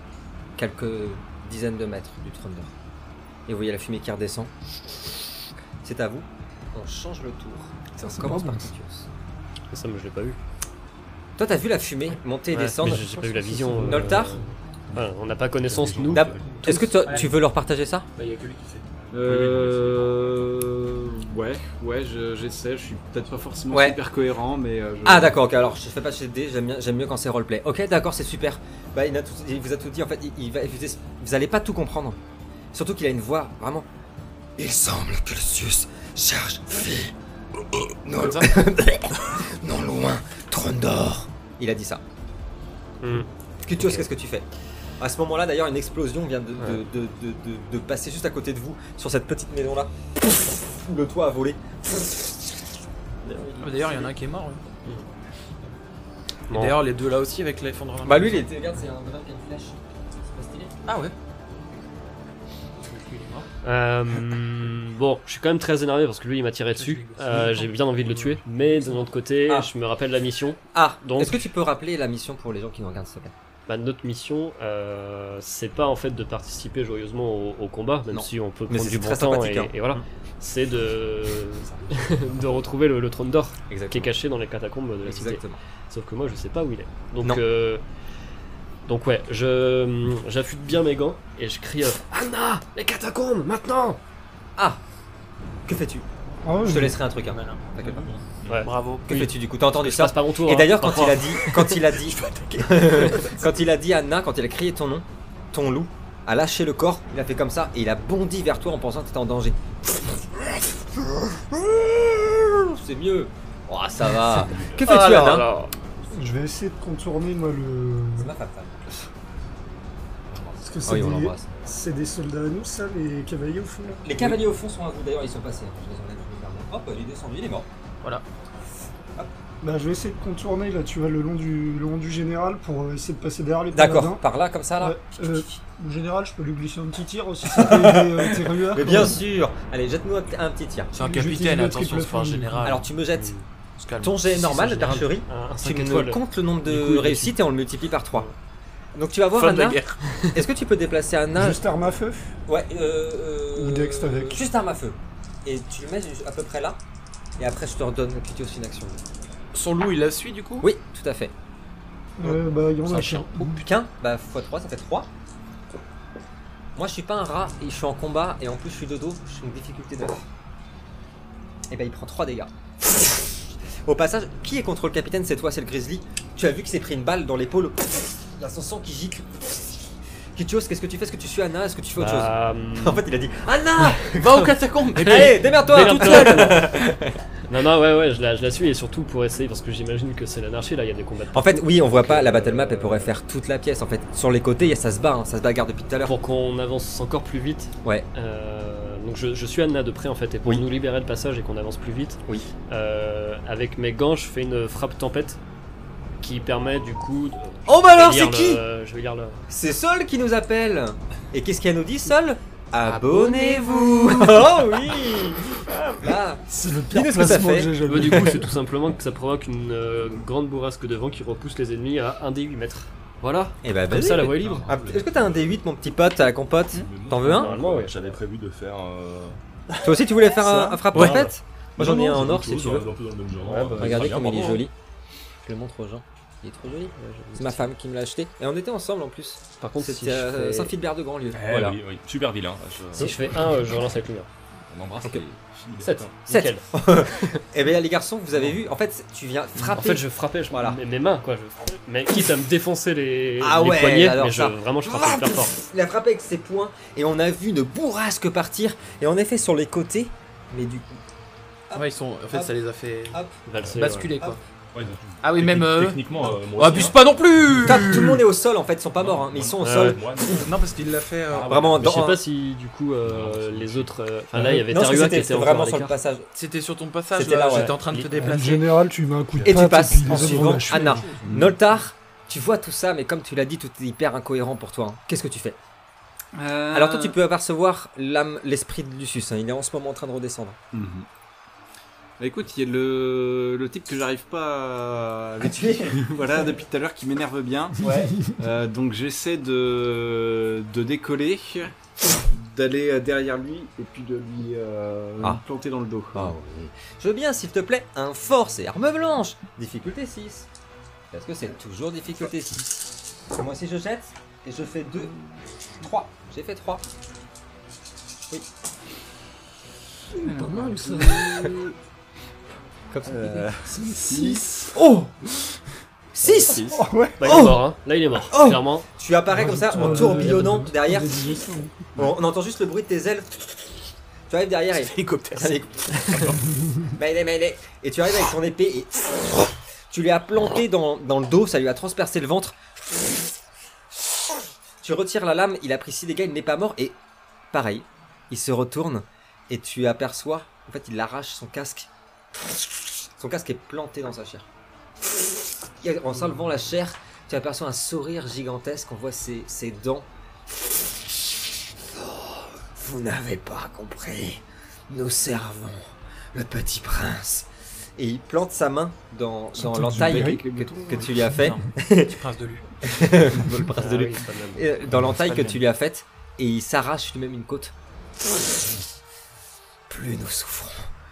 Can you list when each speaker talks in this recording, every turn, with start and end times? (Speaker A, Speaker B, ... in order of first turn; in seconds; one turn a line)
Speaker A: 0.6-2.7
Speaker A: 3.5-4.5
Speaker A: 5.8-9.1
Speaker B: 8.0-8.7
Speaker C: 9.7-10.4
Speaker A: 11.4-14.4
Speaker C: 12.5-16.8
Speaker B: 13.4-14.1
Speaker D: 15.6-17.3
Speaker A: 16.1-18.1
Speaker E: 17.1-17.3
Speaker E: 18.2-18.8
Speaker F: 19.1-25.5
Speaker D: 19.2-20.6
Speaker A: 23.7-24.0
Speaker A: 25.0-32.2
Speaker A: 32.7-33.9
Speaker A: 34.6-37.1
Speaker A: 37.7-42.0
Speaker E: 38.2-38.5
Speaker C: 43.0-44.1
Speaker A: 43.6-44.5
Speaker A: 45.0-49.9
Speaker A: 50.5-52.4
Speaker A: 53.2-54.1
Speaker E: 53.6-54.6
Speaker C: 56.5-56.8
Speaker E: 56.5-58.5
Speaker A: 58.0-60.7
Speaker E: 60.9-61.1
Speaker E: 62.8-63.5
Speaker C: 63.6-71.5
Speaker E: 66.8-69.1
Speaker A: 70.7-73.3
Speaker C: 73.7-87.8
Speaker A: 78.1-79.7
Speaker A: 83.7-84.1
Speaker A: 85.0-85.6
Speaker C: 88.9-94.0
Speaker A: 95.7-96.1
Speaker B: 96.4-97.0
Speaker A: 96.6-98.1
Speaker E: 97.2-99.1
Speaker D: 98.4-98.7
Speaker C: 98.5-101.7
Speaker A: 99.1-109.6
Speaker E: 102.0-103.3
Speaker A: 111.0-115.5
Speaker D: 114.3-114.9
Speaker E: 114.9-115.7
Speaker C: 115.0-115.4
Speaker B: 116.1-118.3
Speaker A: 118.2-118.8
Speaker B: 120.6-124.4
Speaker A: 120.8-121.5
Speaker A: 124.0-127.7
Speaker B: 129.6-134.2
Speaker A: 133.7-135.6
Speaker B: 134.8-139.2
Speaker A: 137.5-140.9
Speaker E: 140.9-142.9
Speaker B: 141.0-142.8
Speaker A: 142.6-143.3
Speaker C: 143.2-143.4
Speaker E: 143.8-145.1
Speaker A: 144.0-148.3
Speaker C: 144.5-147.4
Speaker A: 148.9-149.8
Speaker E: 149.3-150.0
Speaker A: 150.3-151.6
Speaker B: 151.3-152.3
Speaker A: 152.5-156.8
Speaker B: 153.6-154.4
Speaker A: 157.4-159.0
Speaker E: 159.5-160.7
Speaker A: 160.6-161.3
Speaker B: 162.2-163.7
Speaker E: 162.9-163.4
Speaker A: 163.5-165.1
Speaker A: 166.8-170.2
Speaker A: 171.7-172.5
Speaker A: 173.9-179.8
Speaker A: 180.3-187.2
Speaker C: 182.0-183.1
Speaker E: 184.0-186.7
Speaker C: 185.0-186.8
Speaker C: 187.5-193.1
Speaker A: 191.3-196.1
Speaker C: 196.1-205.4
Speaker C: 206.2-209.4
Speaker A: 207.7-208.6
Speaker A: 209.5-218.4
Speaker E: 212.8-214.8
Speaker E: 215.7-216.0
Speaker B: 216.5-218.5
Speaker C: 217.8-224.7
Speaker A: 223.6-227.5
Speaker D: 224.1-225.6
Speaker D: 226.7-229.4
Speaker C: 227.2-228.2
Speaker A: 229.8-232.9
Speaker D: 230.5-234.7
Speaker E: 230.9-231.3
Speaker C: 233.4-234.3
Speaker A: 233.8-234.7
Speaker A: 235.4-241.8
Speaker C: 237.0-237.7
Speaker C: 239.6-240.7
Speaker D: 241.3-243.7
Speaker C: 243.0-244.3
Speaker D: 244.7-246.2
Speaker C: 245.8-247.4
Speaker A: 246.3-250.8
Speaker C: 249.6-255.6
Speaker A: 253.4-261.0
Speaker A: 261.7-262.5
Speaker E: 261.7-263.2
Speaker A: 263.1-263.4
Speaker C: 263.5-264.1
Speaker E: 263.7-264.4
Speaker D: 264.7-267.0
Speaker E: 265.2-268.2
Speaker A: 267.6-270.2
Speaker D: 269.0-270.5
Speaker C: 269.6-270.0
Speaker E: 270.3-271.7
Speaker D: 271.3-272.1
Speaker A: 271.5-272.2
Speaker C: 271.8-276.0
Speaker D: 273.0-273.9
Speaker A: 274.4-276.3
Speaker E: 276.4-278.7
Speaker A: 277.1-277.7
Speaker C: 277.5-278.3
Speaker B: 278.1-281.2
Speaker A: 279.4-285.6
Speaker E: 280.3-280.6
Speaker D: 281.2-281.6
Speaker F: 286.3-287.2
Speaker A: 286.7-290.6
Speaker F: 290.7-291.1
Speaker F: 292.2-306.3
Speaker A: 295.4-296.1
Speaker A: 306.1-310.5
Speaker A: 311.1-315.1
Speaker A: 315.8-316.8
Speaker B: 320.2-321.5
Speaker F: 320.2-321.7
Speaker A: 322.9-323.5
Speaker F: 323.1-324.7
Speaker B: 323.7-324.7
Speaker A: 324.7-325.1
Speaker A: 326.1-327.6
Speaker F: 326.2-326.8
Speaker B: 326.7-327.5
Speaker C: 327.2-328.9
Speaker A: 328.3-331.2
Speaker B: 329.3-331.9
Speaker F: 329.9-330.2
Speaker A: 332.0-333.3
Speaker A: 334.3-342.6
Speaker E: 334.7-335.6
Speaker A: 344.8-347.0
Speaker A: 347.5-351.9
Speaker A: 353.2-354.5
Speaker A: 355.8-360.7
Speaker A: 361.9-372.1
Speaker B: 369.6-370.4
Speaker F: 370.0-371.3
Speaker E: 371.0-372.7
Speaker A: 372.8-377.7
Speaker C: 373.8-374.8
Speaker E: 375.0-375.6
Speaker A: 379.9-380.9